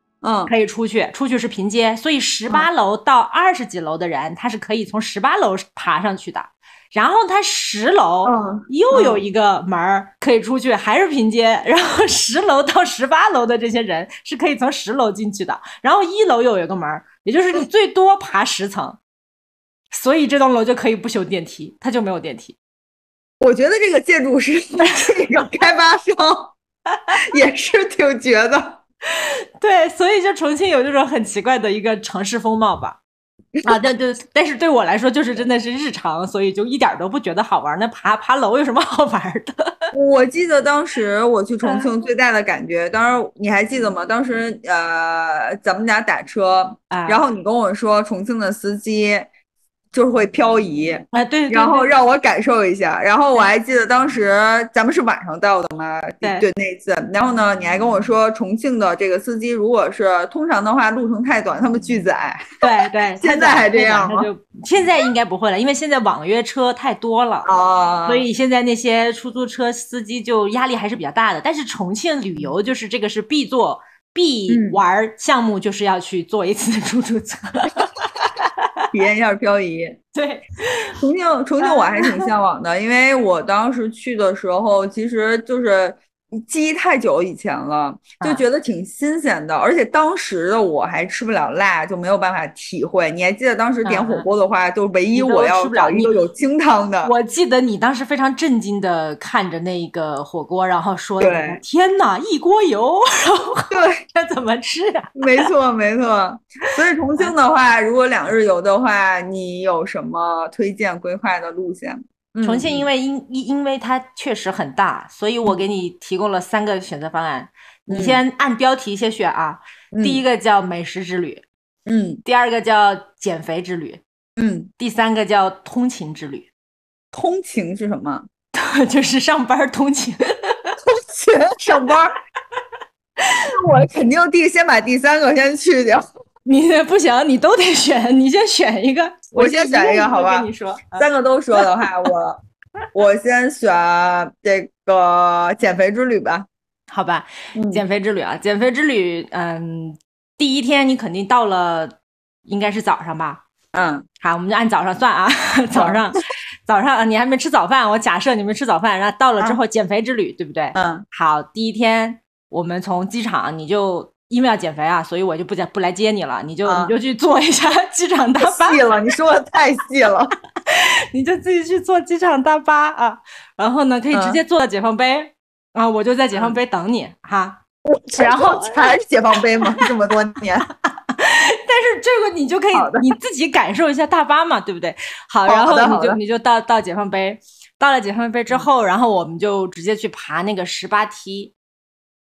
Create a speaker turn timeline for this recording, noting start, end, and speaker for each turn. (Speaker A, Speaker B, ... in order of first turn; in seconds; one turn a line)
Speaker A: 0.2-0.5
Speaker B: 0.5-19.0
Speaker A: 8.2-9.2
Speaker B: 19.9-22.6
Speaker A: 23.4-26.6
Speaker A: 27.1-28.8
Speaker B: 29.1-33.0
Speaker B: 33.6-39.9
Speaker A: 39.9-49.3
Speaker B: 46.9-47.2
Speaker A: 49.9-62.6
Speaker B: 51.1-51.9
Speaker B: 62.6-67.5
Speaker A: 63.2-64.3
Speaker A: 67.5-68.3
Speaker B: 68.1-78.8
Speaker A: 74.5-74.8
Speaker A: 78.9-80.0
Speaker B: 80.1-81.0
Speaker A: 81.0-97.1
Speaker B: 81.6-82.3
Speaker B: 93.8-94.3
Speaker B: 95.1-96.2
Speaker B: 97.0-105.5
Speaker A: 101.2-101.6
Speaker A: 103.7-104.0
Speaker A: 105.2-112.9
Speaker B: 112.4-121.4
Speaker A: 117.9-118.2
Speaker A: 119.9-120.2
Speaker A: 121.9-122.2
Speaker B: 122.2-124.0
Speaker A: 124.4-124.7
Speaker B: 124.8-126.5
Speaker A: 127.1-128.3
Speaker B: 128.5-130.8
Speaker A: 130.8-132.2
Speaker A: 133.3-136.1
Speaker B: 136.5-141.1
Speaker A: 139.3-142.4
Speaker A: 142.9-146.5
Speaker B: 146.9-153.4
Speaker A: 147.6-147.8
Speaker A: 153.7-154.1
Speaker B: 154.2-168.9
Speaker A: 155.8-156.0
Speaker A: 160.8-161.1
Speaker A: 166.7-166.9
Speaker A: 168.4-170.3
Speaker B: 170.7-177.6
Speaker A: 174.1-174.4
Speaker A: 176.3-176.6
Speaker A: 177.8-180.7
Speaker B: 178.2-178.9
Speaker B: 179.6-179.9
Speaker B: 180.8-191.5
Speaker A: 182.7-183.1
Speaker A: 185.5-186.2